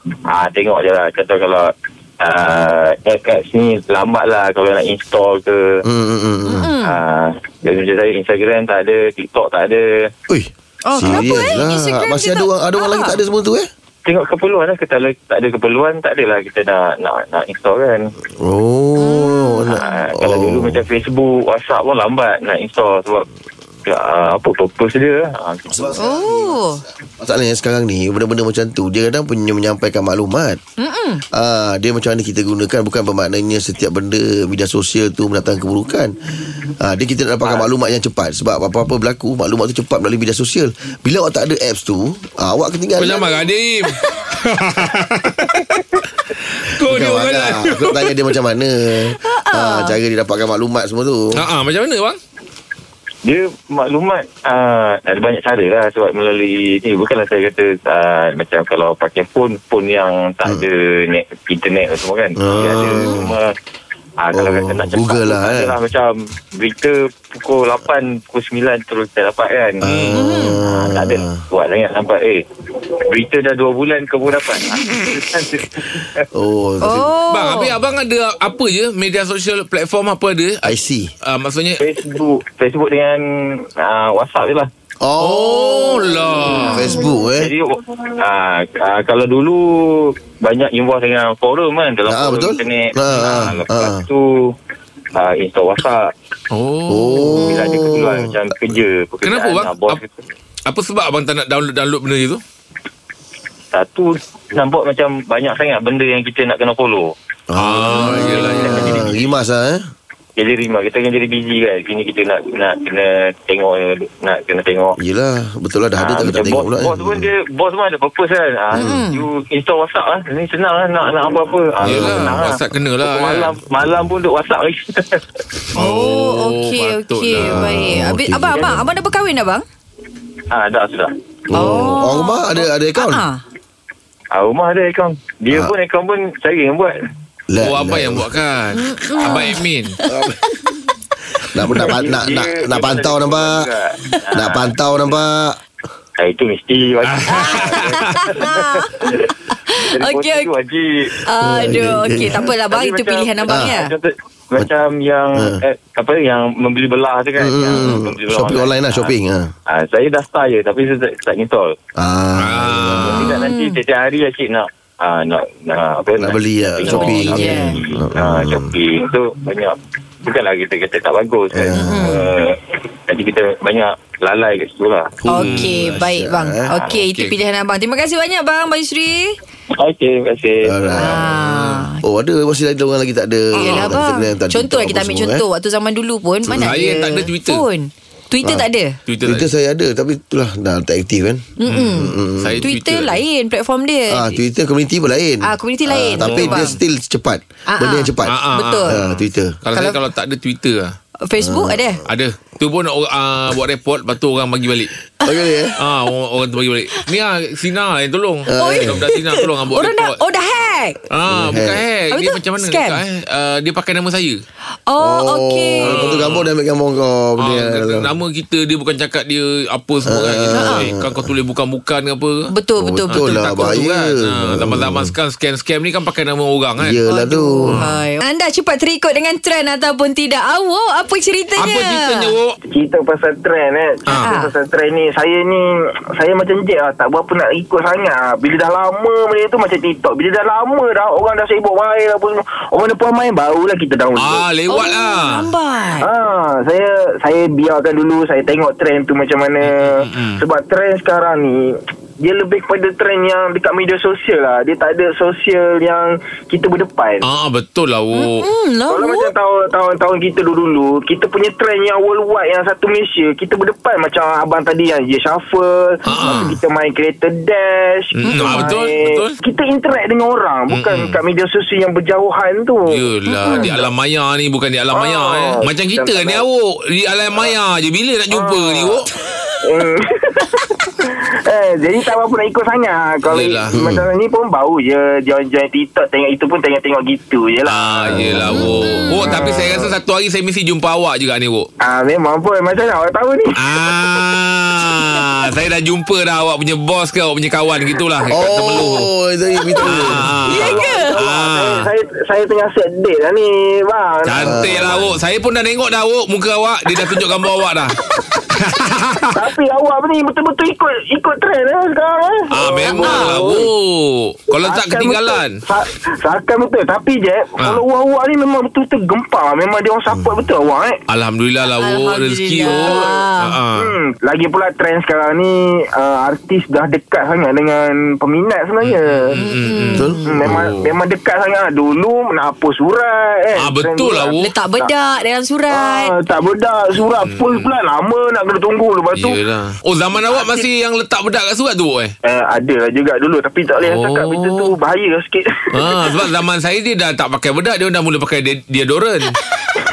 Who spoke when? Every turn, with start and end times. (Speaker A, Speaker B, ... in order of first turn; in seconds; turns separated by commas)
Speaker A: 0.3-5.8, Speaker B: 5.8-6.7, Speaker C: 6.5-7.0, Speaker A: 6.8-10.1, Speaker B: 10.3-13.7, Speaker C: 10.8-13.2, Speaker A: 14.1-18.1, Speaker B: 18.4-20.8, Speaker C: 19.0-19.9, Speaker A: 19.7-23.3, Speaker A: 23.9-26.0, Speaker B: 25.7-30.6, Speaker C: 26.0-26.8, Speaker C: 30.8-31.2, Speaker B: 31.3-43.4, Speaker D: 43.0-45.8, Speaker D: 46.5-48.3, Speaker B: 46.8-51.5, Speaker C: 49.2-50.0, Speaker D: 51.3-52.2, Speaker A: 53.2-63.5, Speaker B: 62.4-63.3, Speaker A: 64.2-69.8, Speaker B: 64.3-65.7, Speaker B: 69.8-71.4, Speaker D: 69.8-70.2, Speaker C: 70.2-70.6, Speaker A: 70.6-72.5, Speaker A: 73.1-76.3, Speaker B: 76.3-77.1, Speaker C: 76.8-77.8, Speaker D: 77.3-81.8, Speaker B: 80.6-81.1, Speaker A: 81.8-84.7, Speaker B: 85.0-87.5, Speaker D: 85.2-87.0, Speaker C: 86.5-87.1, Speaker A: 87.4-94.5, Speaker B: 92.1-94.1, Speaker D: 93.1-93.5, Speaker A: 95.2-96.1, Speaker D: 96.5-97.5, Speaker B: 96.9-98.4, Speaker A: 97.5-100.2, Speaker D: 99.2-100.0, Speaker D: 100.7-102.4, Speaker A: 103.7-107.1, Speaker B: 107.5-109.9, Speaker D: 107.6-109.2, Speaker A: 110.4-115.0, Speaker B: 115.0-117.3, Speaker A: 116.0-125.3, Speaker C: 118.8-119.3, Speaker D: 121.8-123.6, Speaker B: 121.8-122.4, Speaker D: 125.8-127.7, Speaker C: 125.8-129.6, Speaker B: 127.4-128.8, Speaker A: 128.5-128.8, Speaker A: 130.5-131.2, Speaker B: 131.5-133.2, Speaker C: 131.5-133.4, Speaker A: 134.3-137.0, Speaker B: 137.5-138.3, Speaker D: 137.6-140.0, Speaker C: 138.7-140.1, Speaker B: 140.1-140.4, Speaker B: 141.4-143.6, Speaker A: 141.9-144.7, Speaker B: 144.3-145.6, Speaker A: 146.2-151.1, Speaker D: 147.1-148.2, Speaker C: 147.3-149.2, Speaker C: 149.7-150.5, Speaker C: 151.2-153.9, Speaker B: 151.4-152.5, Speaker A: 152.7-159.1, Speaker B: 155.4-155.6, Speaker B: 157.4-159.5, Speaker A: 159.7-161.7, Speaker B: 162.0-163.3, Speaker D: 162.4-163.3, Speaker A: 163.0-175.2, Speaker C: 163.2-163.8, Speaker B: 166.2-168.8, Speaker C: 166.9-167.8, Speaker B: 171.5-172.3, Speaker C: 171.8-172.3, Speaker B: 175.2-176.7, Speaker C: 175.3-179.4, Speaker D: 175.4-175.8, Speaker D: 176.8-177.3, Speaker A: 179.8-181.0, Speaker B: 180.7-185.4, Speaker C: 181.0-182.0, Speaker C: 183.5-189.0, Speaker D: 183.7-183.9, Speaker B: 186.4-186.8, Speaker D: 186.6-187.7, Speaker D: 189.1-189.5, Speaker B: 189.2-192.7, Speaker C: 191.6-194.3, Speaker D: 191.7-193.2, Speaker B: 194.1-199.6, Speaker C: 195.4-196.8, Speaker D: 196.2-196.7, Speaker C: 197.7-199.0, Speaker D: 198.3-200.9, Speaker C: 201.2-202.0, Speaker B: 201.4-202.1, Speaker D: 202.1-204.9, Speaker B: 205.2-205.8, Speaker D: 205.8-210.2, Speaker B: 208.5-209.1, Speaker C: 208.6-211.0, Speaker D: 211.1-214.4, Speaker B: 211.3-211.8, Speaker C: 212.1-213.0, Speaker C: 214.9-216.2, Speaker B: 215.0-218.1, Speaker D: 215.8-216.5, Speaker D: 217.4-222.5, Speaker B: 220.1-221.3, Speaker C: 220.5-220.9, Speaker C: 222.5-223.7, Speaker B: 222.8-225.1, Speaker D: 223.1-227.0, Speaker B: 226.8-227.8, Speaker C: 227.1-232.3, Speaker D: 231.6-232.5, Speaker E: 232.7-244.5, Speaker C: 234.2-234.5, Speaker D: 244.2-245.5, Speaker C: 244.7-246.1, Speaker E: 246.0-257.2, Speaker D: 249.6-250.4, Speaker D: 257.2-258.4, Speaker C: 258.1-259.3, Speaker E: 258.9-273.9, Speaker C: 266.1-266.4, Speaker D: 266.1-266.6, Speaker D: 268.2-269.4, Speaker C: 268.2-268.7, Speaker D: 270.7-271.2, Speaker D: 272.9-279.1, Speaker C: 273.3-273.8, Speaker E: 274.9-276.4, Speaker E: 278.3-279.1, Speaker E: 279.6-288.5, Speaker D: 283.3-283.8, Speaker B: 283.7-284.1, Speaker D: 287.6-291.7, Speaker B: 288.1-288.8, Speaker C: 288.4-289.4, Speaker E: 289.2-289.9, Speaker E: 291.8-294.3, Speaker D: 293.6-299.1, Speaker C: 294.9-295.4, Speaker B: 298.3-300.3, Speaker D: 299.8-301.9, Speaker E: 300.0-305.0, Speaker C: 300.5-301.2, Speaker D: 304.2-309.4, Speaker B: 304.3-305.1, Speaker E: 307.1-307.4, Speaker E: 308.1-308.5, Speaker E: 309.3-313.7, Speaker D: 312.5-315.6, Speaker C: 312.9-313.4, Speaker E: 314.5-321.0, Speaker D: 317.6-317.8, Speaker D: 321.1-324.0, Speaker C: 321.8-323.6, Speaker E: 322.6-329.4, Speaker D: 328.8-331.0, Speaker C: 329.4-330.6, Speaker B: 330.0-330.2, Speaker E: 330.2-334.9, Speaker D: 333.6-334.5, Speaker C: 334.4-336.1, Speaker E: 335.7-339.4, Speaker D: 337.2-337.7, Speaker D: 339.1-342.1, Speaker C: 340.3-340.6, Speaker E: 342.2-346.3, Speaker D: 343.8-344.7, Speaker D: 345.7-349.4, Speaker C: 349.4-349.7